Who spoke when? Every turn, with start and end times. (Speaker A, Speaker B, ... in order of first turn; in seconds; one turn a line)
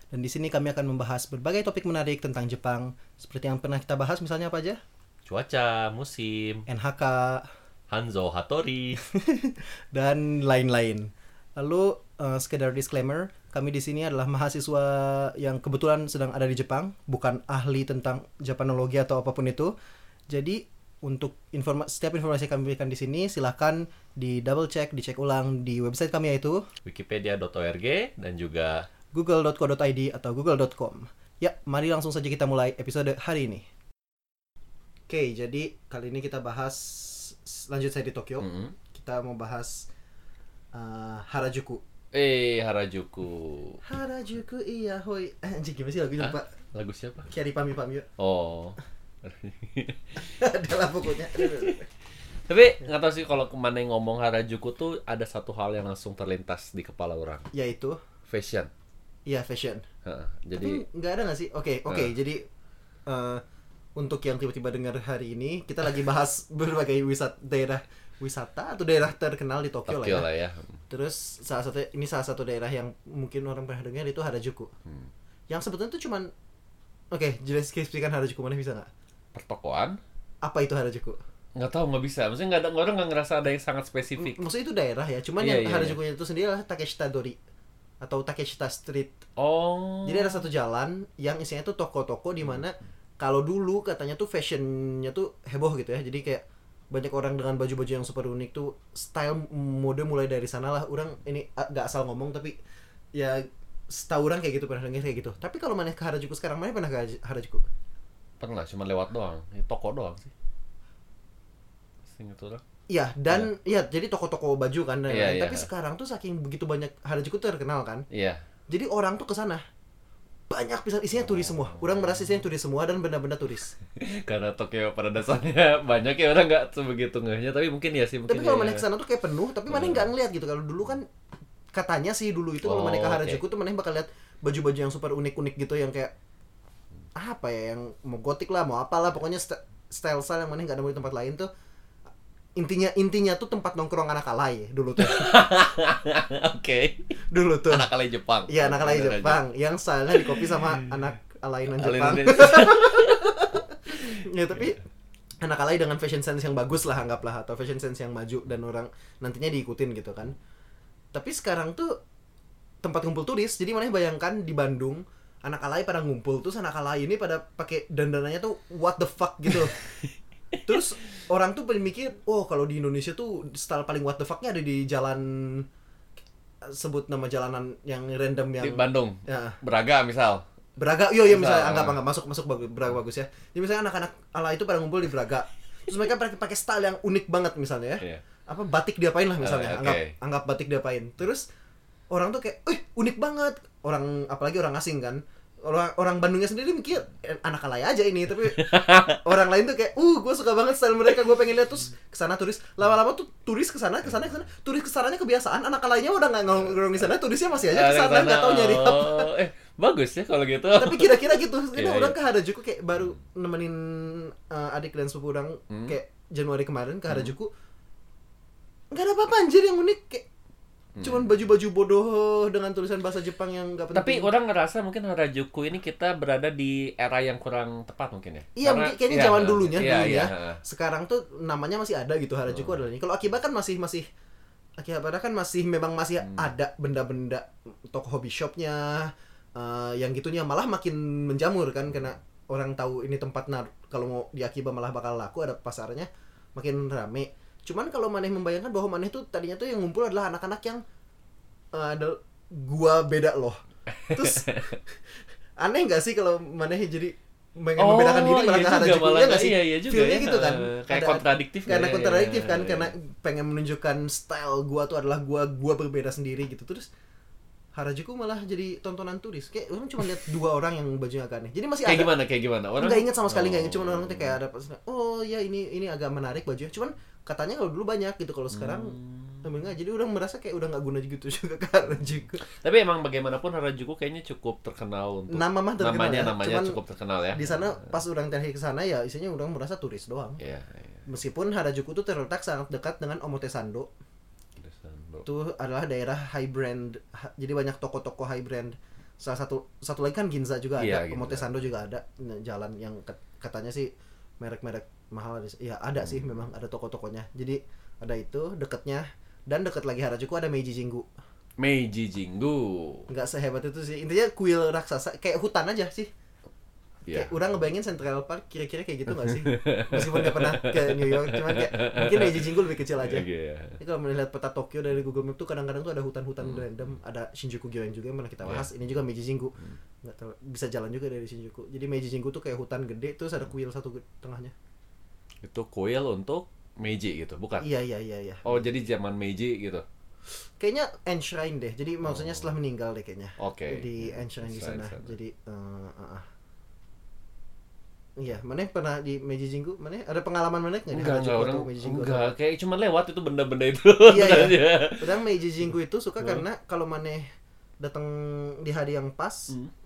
Speaker A: 0.1-4.8
Speaker B: 5.3-6.7
Speaker A: 6.7-7.5
Speaker B: 7.9-9.0
Speaker A: 9.1-19.7
Speaker A: 20.3-26.6
Speaker B: 26.9-28.9
Speaker A: 29.1-33.6
Speaker A: 35.1-39.9
Speaker B: 38.4-38.7
Speaker A: 40.7-41.8
Speaker B: 42.1-43.8
Speaker A: 43.8-46.5
Speaker B: 46.2-47.3
Speaker A: 47.3-48.1
Speaker B: 48.2-50.1
Speaker A: 50.2-51.9
Speaker B: 51.4-51.7
Speaker B: 52.5-57.5
Speaker A: 57.5-58.0
Speaker B: 58.3-58.7
Speaker A: 59.3-59.9
Speaker B: 60.0-60.8
Speaker A: 60.5-62.4
Speaker A: 63.1-63.4
Speaker A: 64.0-70.3
Speaker B: 69.9-70.8
Speaker A: 70.9-74.7
Speaker A: 75.5-76.3
Speaker A: 77.1-78.9
Speaker B: 79.3-80.0
Speaker A: 80.4-81.2
Speaker B: 81.5-84.4
Speaker A: 84.2-87.4
Speaker B: 85.4-86.0
Speaker A: 88.0-89.2
Speaker B: 89.4-90.5
Speaker A: 90.0-102.6
Speaker A: 103.2-107.7
Speaker B: 108.4-110.3
Speaker B: 112.1-112.6
Speaker A: 112.9-118.1
Speaker B: 115.1-115.7
Speaker B: 118.1-118.4
Speaker A: 118.7-119.6
Speaker A: 120.5-123.8
Speaker B: 124.0-128.8
Speaker A: 128.3-131.1
Speaker B: 129.7-130.1
Speaker A: 131.7-136.1
Speaker B: 132.6-133.4
Speaker A: 137.2-141.5
Speaker A: 142.6-145.3
Speaker B: 145.0-147.1
Speaker A: 147.3-147.9
Speaker B: 147.7-149.4
Speaker A: 148.5-154.8
Speaker B: 150.1-151.0
Speaker B: 151.8-153.3
Speaker A: 155.4-160.3
Speaker A: 161.1-162.0
Speaker A: 162.8-169.8
Speaker A: 170.6-175.7
Speaker A: 176.6-179.6
Speaker B: 178.6-180.4
Speaker A: 180.8-191.5
Speaker B: 181.2-182.0
Speaker B: 189.4-190.1
Speaker A: 192.1-209.3
Speaker B: 198.5-199.2
Speaker B: 207.7-212.2
Speaker A: 210.8-217.5
Speaker B: 215.7-216.0
Speaker B: 217.1-217.3
Speaker A: 218.9-220.3
Speaker B: 221.0-221.2
Speaker A: 221.0-224.3
Speaker B: 223.9-230.6
Speaker A: 228.6-234.1
Speaker A: 234.8-250.8
Speaker B: 236.2-236.5
Speaker A: 251.7-253.6
Speaker B: 254.0-254.8
Speaker A: 254.1-254.5
Speaker A: 255.6-266.9
Speaker B: 257.8-262.9
Speaker A: 267.8-272.1
Speaker B: 271.9-274.4
Speaker A: 272.8-282.4
Speaker B: 278.5-279.4
Speaker B: 282.4-287.9
Speaker A: 285.3-286.8
Speaker A: 287.3-290.4
Speaker B: 290.4-291.0
Speaker A: 291.1-293.9
Speaker B: 294.6-295.3
Speaker A: 295.2-311.1
Speaker B: 300.8-301.6
Speaker B: 311.6-313.1
Speaker A: 313.1-316.1
Speaker B: 317.1-317.3
Speaker A: 317.1-323.3
Speaker B: 319.1-323.8
Speaker A: 323.8-334.5
Speaker B: 335.4-337.7
Speaker A: 337.6-338.7
Speaker B: 338.4-339.8
Speaker A: 340.6-346.2
Speaker B: 342.1-342.5
Speaker B: 343.4-345.1
Speaker A: 348.2-352.3
Speaker B: 350.9-355.1
Speaker A: 354.1-357.3
Speaker A: 357.8-359.5